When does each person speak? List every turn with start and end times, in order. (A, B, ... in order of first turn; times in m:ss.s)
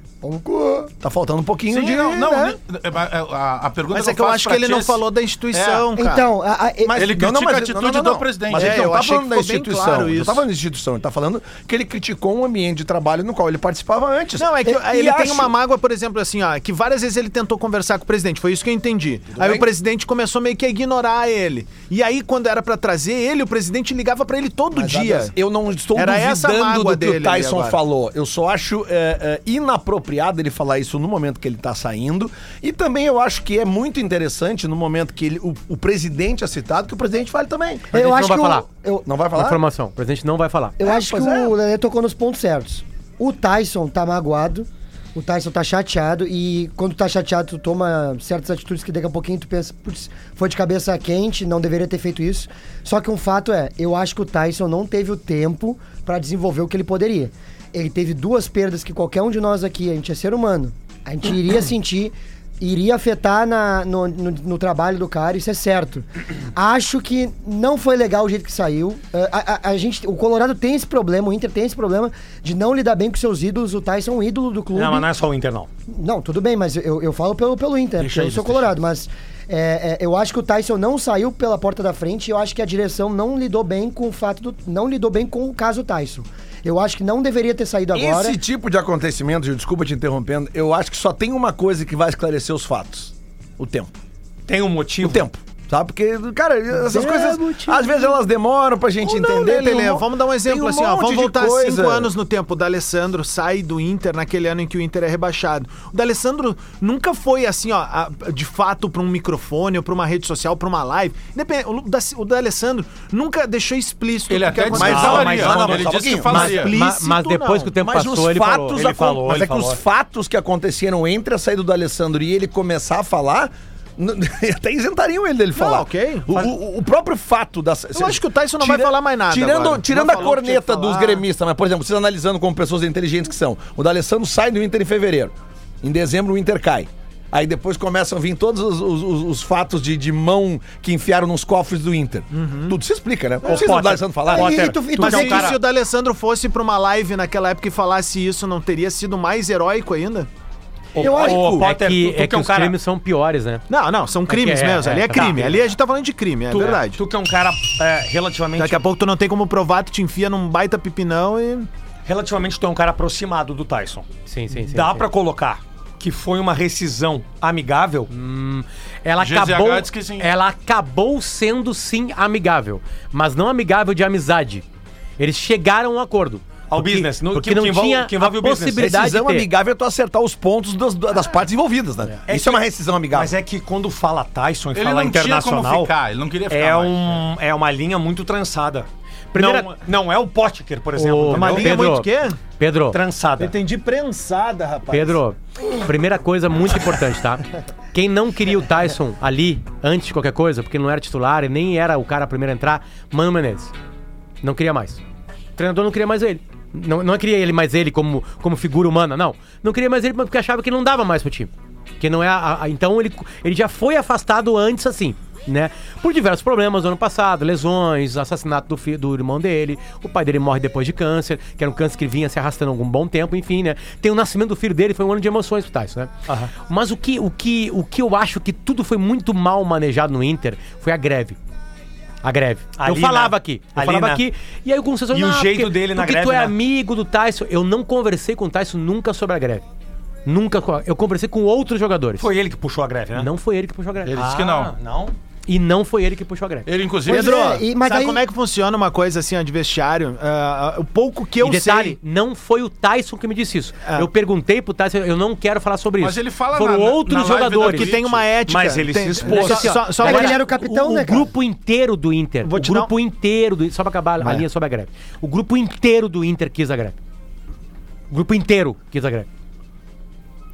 0:00.2-0:00.9 A
0:01.0-0:02.6 B
0:01.7-0:05.9 C
0:03.9-0:06.3 D
0:06.0-0:07.0 A
0:06.8-0:15.5 B
0:07.0-0:08.9 C
0:08.5-0:10.4 D
0:14.4-0:25.4 D
0:19.4-0:19.7 B
0:24.7-0:37.9 B
0:26.0-0:27.8 D
0:37.9-0:38.6 E
0:37.9-0:39.1 A
0:39.0-0:39.6 B
0:39.3-0:40.8 E
0:40.8-1:15.1 A
0:40.8-0:41.6 B
1:14.7-1:15.7 F
1:15.9-1:28.4 A
1:18.0-1:18.7 C
1:27.9-1:33.9 B
1:34.5-1:35.2 F
1:35.0-1:42.1 B
1:36.8-1:38.1 E
1:39.0-1:55.4 D
1:54.3-1:56.7 C
1:54.7-1:56.5 B
1:54.8-1:56.2 F
1:56.2-1:57.8 D
1:56.3-1:58.9 E
1:57.8-2:24.8 B
1:58.8-1:59.8 F
2:05.6-2:06.4 D
2:08.0-2:11.2 D
2:22.3-2:22.8 D
2:23.4-2:25.6 F
2:24.3-2:25.6 A
2:25.0-2:30.3 D
2:30.9-2:32.8 F
2:31.0-2:31.5 A
2:31.0-2:31.6 B
2:31.5-2:33.6 E
2:33.7-2:37.0 D
2:34.3-2:35.6 E
2:35.1-2:35.5 F
2:36.5-2:38.8 F
2:38.6-2:41.7 D
2:42.1-2:48.1 F
2:44.3-2:45.1 E
2:48.1-2:54.6 E
2:49.2-2:50.3 C
2:55.2-2:59.5 E
2:56.7-2:58.9 F
2:58.8-3:03.3 B
3:02.3-3:05.9 F
3:04.8-3:07.2 C
3:06.5-3:11.9 F
3:09.3-3:09.7 E
3:11.0-3:13.0 E
3:11.3-3:12.4 D
3:12.9-3:13.5 F
3:13.4-3:15.2 D
3:14.9-3:23.7 E
3:24.4-3:25.0 E
3:25.6-3:51.4 E
3:46.3-3:46.5 F
3:52.2-3:59.6 E
3:52.8-3:54.2 F
3:55.1-3:56.5 F
4:00.3-4:02.3 E
4:02.2-4:03.3 F
4:03.1-4:04.2 E
4:04.1-4:04.7 C
4:04.1-4:05.2 F
4:05.5-4:06.7 E
4:06.7-4:07.4 C
4:07.1-4:12.0 D
4:07.1-4:08.2 A
4:11.4-4:17.9 E
4:16.0-4:18.3 C
4:17.6-4:20.4 D
4:18.5-4:19.9 F
4:19.3-4:27.0 E
4:20.0-4:21.3 A
4:22.4-4:22.9 D
4:28.1-4:29.3 E